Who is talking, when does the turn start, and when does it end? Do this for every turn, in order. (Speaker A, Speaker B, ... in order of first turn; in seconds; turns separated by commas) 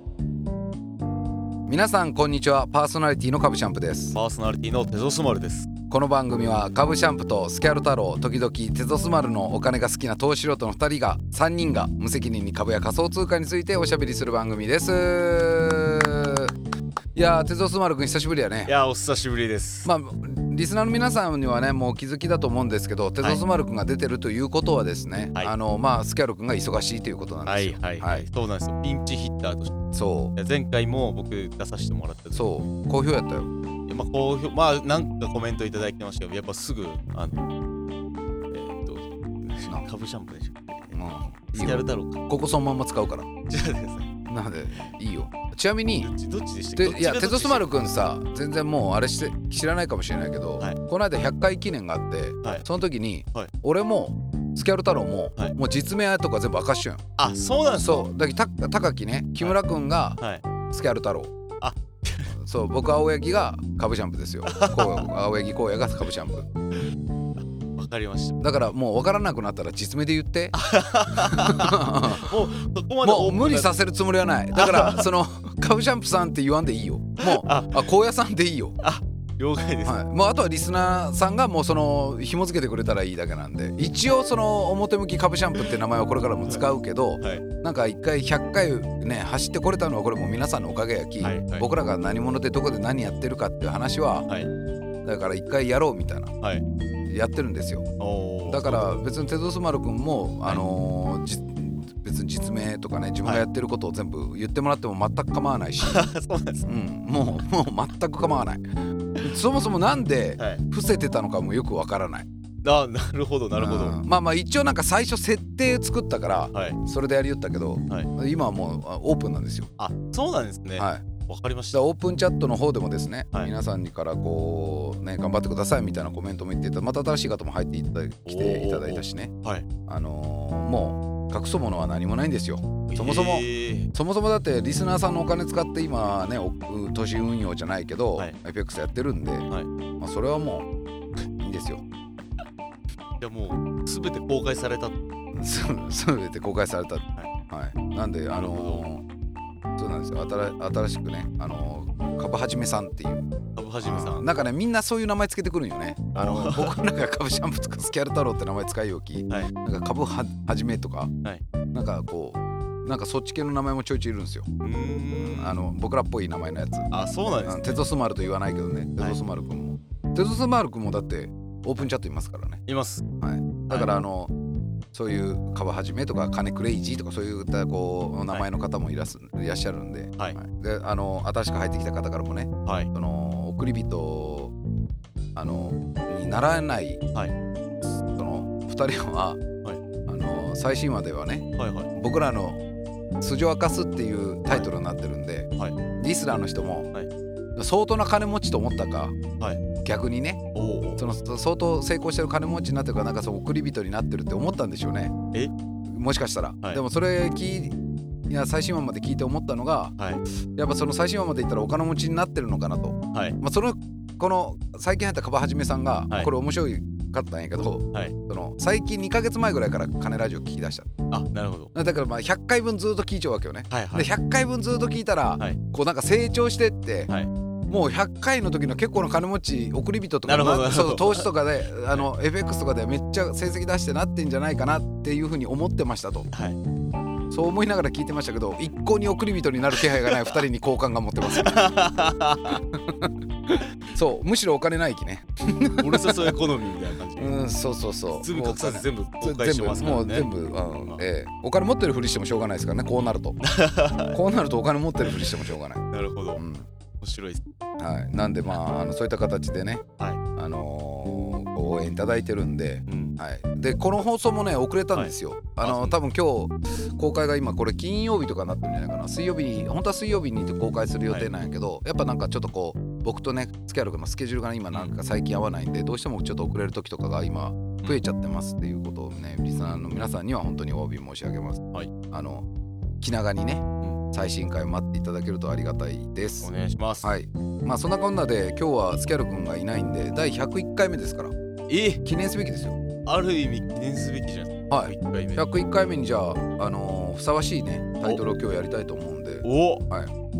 Speaker A: 1.7-4.2, Speaker B: 4.1-5.7, Speaker A: 5.9-16.5, Speaker A: 17.1-18.7, Speaker B: 18.7-19.9, Speaker A: 19.8-28.3, Speaker B: 27.5-29.7, Speaker A: 29.9-30.3, Speaker B: 30.4-32.4, Speaker A: 32.3-33.5, Speaker B: 33.9-37.5, Speaker B: 38.5-41.0, Speaker A: 40.9-43.3, Speaker B: 41.5-42.2, Speaker B: 43.5-44.1, Speaker A: 44.3-46.1, Speaker B: 46.0-47.9, Speaker A: 46.8-57.0, Speaker B: 57.2-58.1, Speaker A: 57.7-61.3, Speaker B: 61.6-62.3, Speaker A: 62.3-66.5, Speaker B: 64.5-65.1, Speaker B: 67.8-68.4, Speaker A: 68.4-78.8, Speaker B: 70.5-73.8, Speaker B: 74.5-75.1, Speaker B: 77.2-77.9, Speaker B: 78.8-79.9, Speaker A: 79.8-94.3, Speaker B: 91.2-91.7, Speaker A: 95.0-96.3, Speaker A: 97.1-97.9, Speaker B: 98.0-99.0, Speaker A: 98.4-106.1, Speaker B: 105.8-106.7, Speaker A: 106.6-108.6, Speaker A: 109.2-112.3, Speaker B: 112.6-114.0, Speaker A: 113.5-119.7, Speaker B: 116.5-116.8, Speaker B: 119.8-121.8, Speaker A: 120.8-121.0, Speaker A: 121.7-129.3, Speaker B: 128.2-129.7, Speaker A: 129.8-140.7, Speaker B: 132.9-133.9, Speaker A: 141.4-141.8, Speaker B: 143.2-145.0, Speaker A: 145.3-149.0, Speaker B: 148.3-148.8, Speaker A: 149.8-153.3, Speaker B: 153.6-154.3, Speaker A: 153.8-161.1, Speaker B: 156.2-156.8, Speaker A: 161.7-164.5, Speaker B: 164.6-165.6, Speaker A: 165.2-172.6, Speaker B: 166.9-167.8, Speaker B: 172.7-173.0, Speaker A: 173.2-174.3, Speaker B: 173.7-173.9, Speaker A: 174.9-184.5, Speaker A: 185.3-187.0, Speaker A: 188.0-189.4, Speaker A: 190.1-192.6, Speaker B: 191.6-191.9, Speaker A: 193.2-196.9, Speaker A: 197.6-199.2, Speaker A: 199.8-200.4, Speaker B: 200.5-201.0, Speaker A: 201.0-205.2, Speaker A: 205.9-207.8, Speaker A: 208.3-209.9, Speaker A: 210.6-220.9, Speaker B: 213.1-213.4, Speaker B: 221.1-221.7, Speaker A: 221.7-227.1, Speaker B: 223.7-224.1, Speaker A: 227.7-236.3, Speaker B: 230.2-231.3, Speaker B: 236.3-236.6, Speaker A: 237.3-241.7, Speaker B: 239.8-240.3, Speaker B: 241.2-242.6, Speaker A: 242.7-246.4, Speaker B: 245.8-247.4, Speaker A: 247.2-253.4, Speaker B: 248.2-250.3, Speaker B: 253.4-254.2, Speaker A: 254.1-255.8, Speaker B: 255.9-256.4, Speaker A: 256.4-256.6, Speaker B: 257.0-257.4, Speaker A: 257.8-259.9, Speaker A: 260.4-282.4, Speaker B: 262.9-263.1, Speaker B: 264.9-266.0, Speaker A: 283.0-286.5, Speaker B: 286.4-287.1, Speaker A: 287.0-291.3, Speaker B: 291.7-292.0, Speaker A: 292.0-292.8, Speaker B: 293.1-295.4, Speaker A: 294.7-300.1, Speaker B: 299.4-299.8